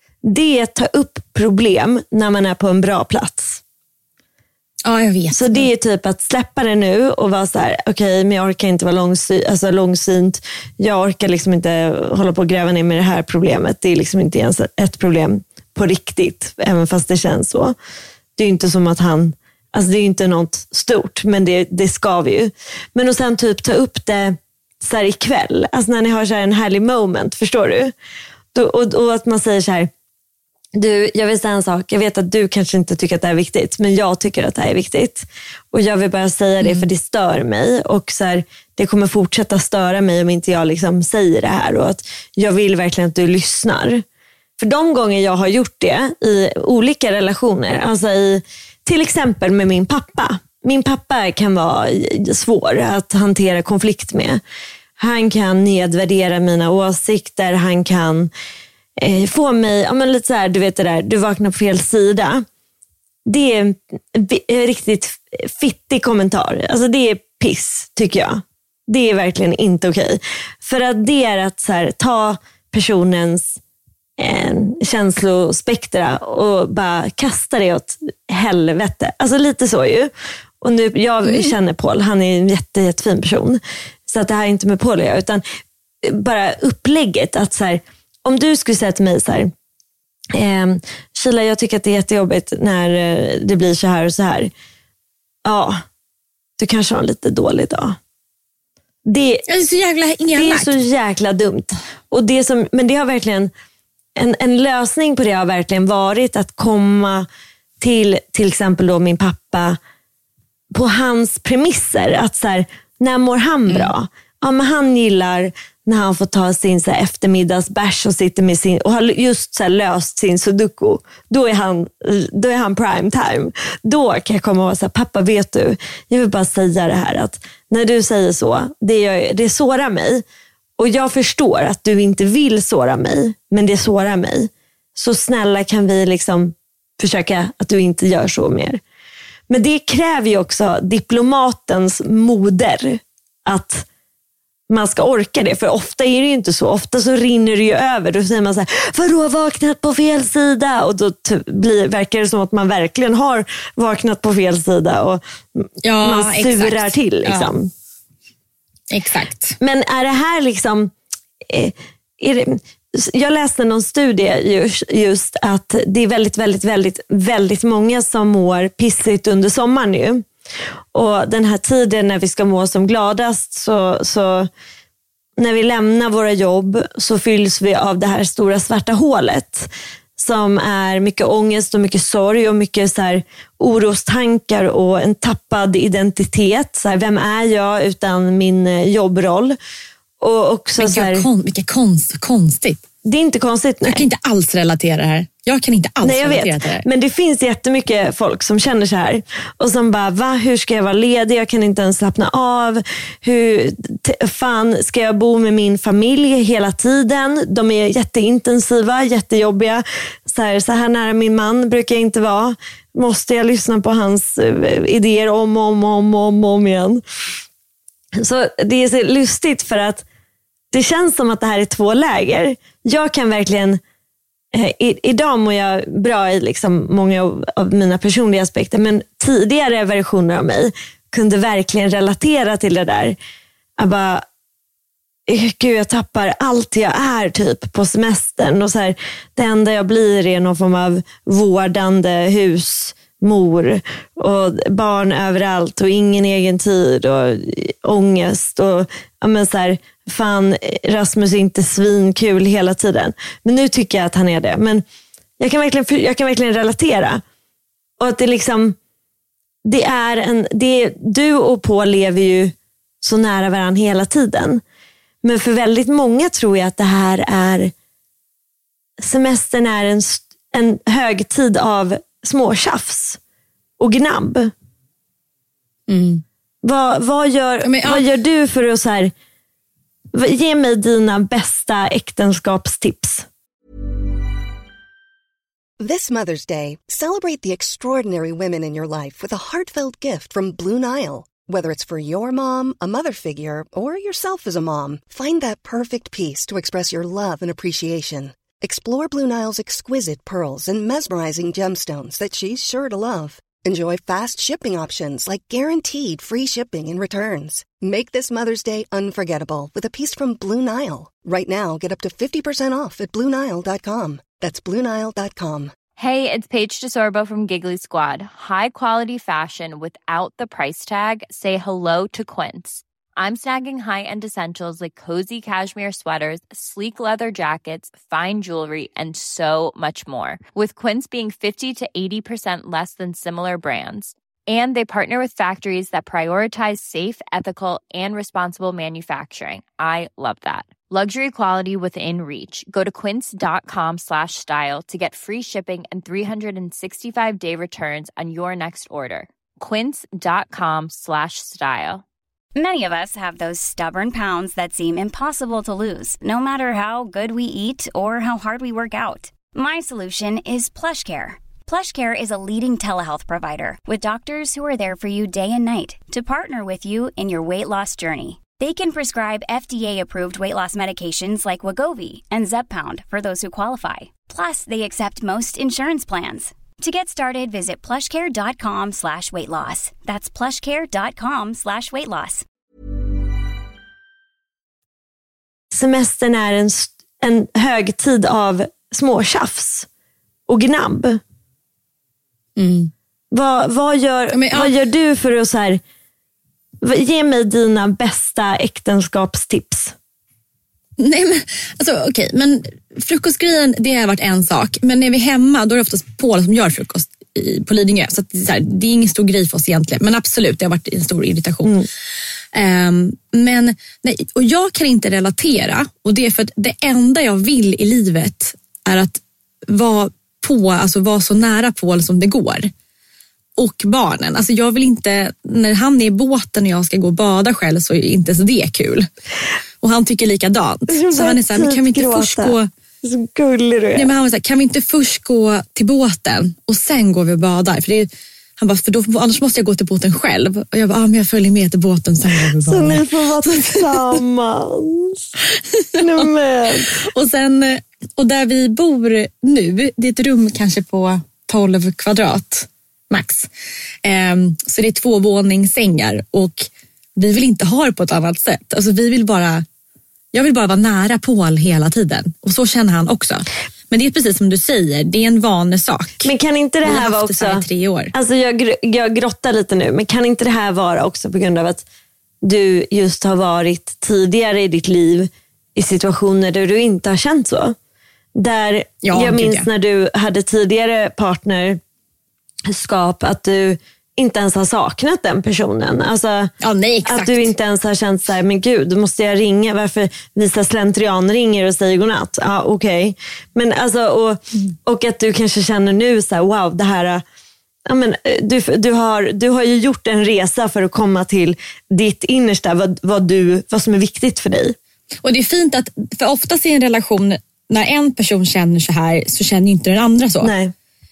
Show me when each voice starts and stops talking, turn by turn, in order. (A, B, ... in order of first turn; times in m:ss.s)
0:00.2-0:03.6 A
0:04.8-0:05.7 B
0:05.3-0:17.8 A
0:18.4-0:27.9 A
0:28.6-0:29.9 A
0:30.8-0:44.0 A
0:36.6-0:36.9 B
0:44.6-0:54.4 A
0:55.0-0:58.3 A
0:59.0-1:02.5 A
1:03.3-1:13.6 A
1:14.2-1:25.4 A
1:21.3-1:21.5 B
1:26.0-1:29.5 A
1:30.3-1:34.5 A
1:35.4-1:35.8 A
1:36.6-1:38.0 A
1:39.1-1:39.4 A
1:39.5-1:40.8 B
1:40.4-1:43.5 A
1:44.2-1:47.3 A
1:47.8-1:49.8 A
1:50.7-2:10.2 A
2:10.8-2:18.8 A
2:19.5-2:23.9 A
2:24.7-2:37.7 A
2:35.8-2:37.5 B
2:38.9-2:39.6 B
2:39.6-2:40.9 A
2:41.4-2:50.3 A
2:50.9-2:54.5 A
2:55.4-3:09.6 A
3:10.2-3:11.3 A
3:10.8-3:12.8 B
3:13.0-3:14.0 A
3:13.8-3:16.9 B
3:16.0-3:37.0 A
3:38.2-3:40.0 A
3:40.7-3:43.8 A
3:44.5-3:53.2 A
3:53.8-3:54.2 A
3:55.3-4:14.8 A
4:15.4-4:17.2 A
4:18.0-4:18.8 A
4:19.6-4:24.6 A
4:25.2-4:27.7 A
4:29.0-4:33.2 A
4:33.8-4:34.5 A
4:35.9-4:36.2 B
4:36.6-4:39.1 A
4:37.6-4:38.1 B
4:40.1-4:43.3 A
4:45.8-5:15.7 C
5:16.0-5:52.0 D
5:52.6-6:22.4 E
6:25.7-6:29.9 A
6:30.5-6:31.2 A
6:32.6-6:32.9 B
6:33.3-6:35.8 A
6:34.3-6:34.7 B
6:36.8-6:40.0 A
6:41.0-6:51.8 B
6:52.5-7:02.7 B
7:03.6-7:09.1 B
7:09.8-7:12.7 B
7:10.9-7:14.1 A
7:14.0-7:24.1 B
7:22.6-7:25.2 A
7:25.8-7:26.0 B
7:26.0-7:26.9 A
7:27.0-7:33.5 B
7:34.0-7:39.6 B
7:40.3-7:46.3 B
7:46.2-7:51.8 A
7:46.8-7:48.1 B
7:52.4-7:57.8 A
7:58.4-8:01.8 A
7:59.0-7:59.7 B
8:02.7-8:06.5 A
8:06.6-8:07.5 B
8:07.0-8:17.2 A
8:17.9-8:24.8 A
8:25.2-8:30.5 B
8:30.4-8:30.7 A